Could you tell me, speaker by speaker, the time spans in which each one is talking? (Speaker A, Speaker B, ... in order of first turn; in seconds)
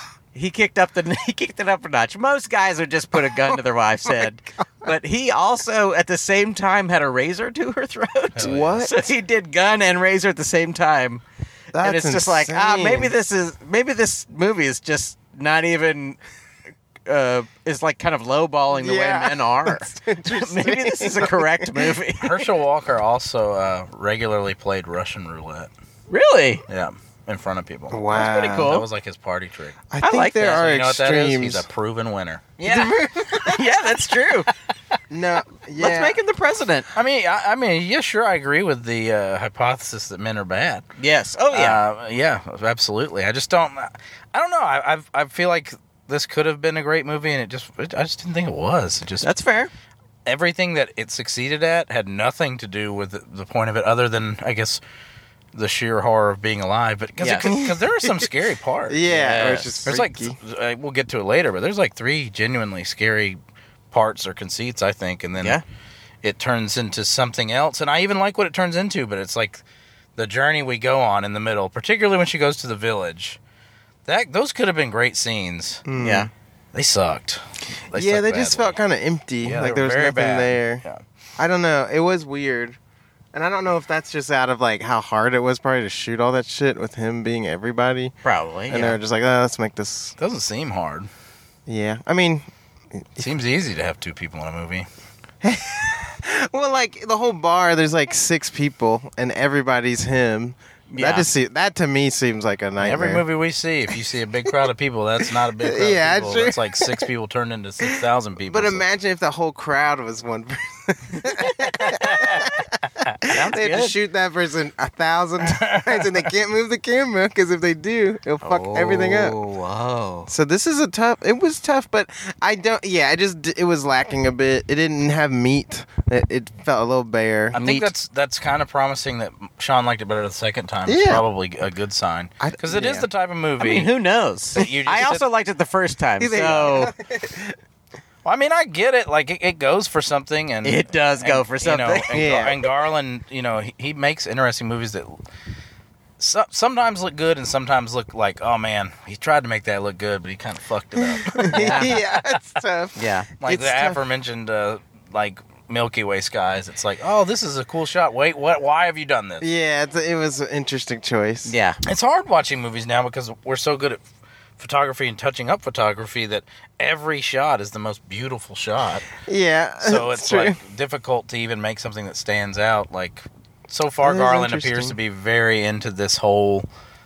Speaker A: 0.3-11.2, 11.8-16.2, 17.1-22.4, 26.1-26.6, 28.1-28.9, 30.0-30.6, 32.6-34.5, 35.8-36.9, 41.0-41.8, 49.2-49.7, 57.2-57.5, 59.0-59.8, 76.0-76.3, 88.2-89.0, 100.9-101.3, 113.2-114.0, 118.4-120.3, 127.5-127.9, 133.6-136.9, 140.6-142.1, 151.4-151.9, 152.9-153.3, 161.4-161.8
Speaker B: 3.5-4.9, 8.4-9.1, 11.7-13.1, 18.7-22.0, 27.9-28.8, 29.9-31.7, 32.6-33.8, 35.1-36.2, 57.4-58.3, 58.9-60.4, 75.8-76.3, 77.9-80.8, 81.4-82.8, 83.3-88.1, 88.7-90.2, 91.7-93.3, 95.4-103.2, 105.2-107.1, 107.8-119.3, 120.3-127.6, 130.8-131.2, 132.4-133.1, 136.2-137.6, 142.1-142.6, 151.0-154.0, 159.4-161.5, 169.2-170.6, 174.0-175.0
Speaker C: 8.3-8.8, 22.2-25.7, 26.7-32.5, 36.9-40.9, 41.5-49.3, 50.2-54.8, 55.5-59.0, 59.8-63.4, 63.9-65.6, 66.2-69.6, 70.2-73.4, 74.0-75.8, 76.7-78.8, 79.4-81.0, 90.2-91.1, 93.2-94.8, 102.8-108.8, 111.9-112.5, 115.4-116.3, 127.5-133.9, 134.5-135.2, 138.2-145.2, 146.2-152.4, 153.4-159.5, 161.8-164.0, 164.6-169.1, 169.8-176.7